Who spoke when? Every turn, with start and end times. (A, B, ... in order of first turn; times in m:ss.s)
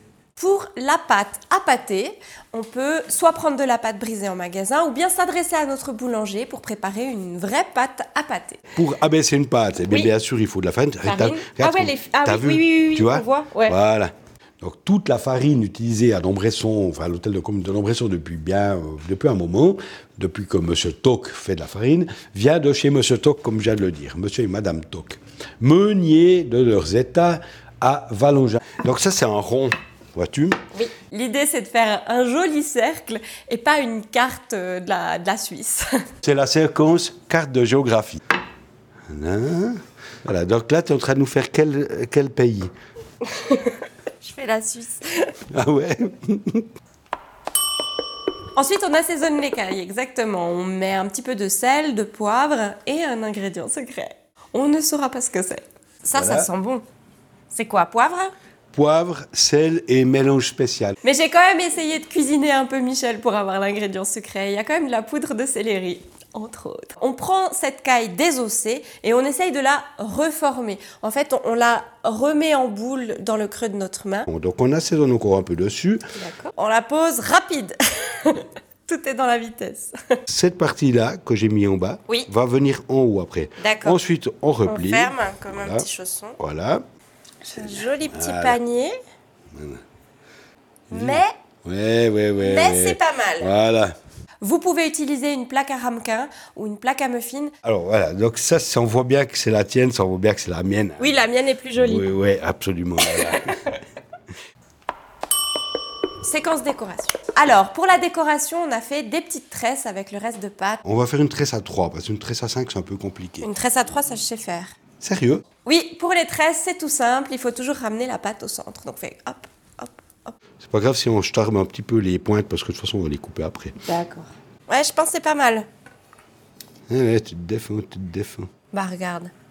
0:00.4-0:08.6 A
0:08.8-0:30.6 B
0:09.9-0:10.1 A
0:11.0-0:13.8 A
0:30.7-0:36.1 A
0:36.2-0:38.2 B
0:39.1-0:42.7 B
0:43.2-0:45.3 A
0:45.5-0:46.7 B
0:48.6-0:56.8 A
0:56.1-0:56.5 B
0:57.5-0:58.3 A
0:58.7-1:01.0 B
1:01.0-1:14.3 A
1:14.3-1:16.0 B
1:16.2-1:20.2 A
1:20.3-1:25.8 B
1:23.6-1:24.0 A
1:24.7-1:26.4 A
1:26.4-1:26.8 B
1:27.5-1:28.9 A
1:28.1-1:28.6 B
1:29.5-1:29.8 B
1:30.9-1:31.3 A
1:30.9-1:34.0 B
1:32.4-1:33.5 A
1:34.4-1:37.5 A
1:37.6-1:43.6 B
1:41.0-1:42.1 A
1:43.0-1:43.7 A
1:46.2-1:50.8 A
1:50.8-1:53.5 B
1:53.4-1:54.7 A
1:55.0-1:55.4 B
1:55.6-2:00.4 A
2:00.6-2:03.7 B
2:03.8-2:05.7 A
2:06.9-2:08.5 B
2:08.7-2:09.3 A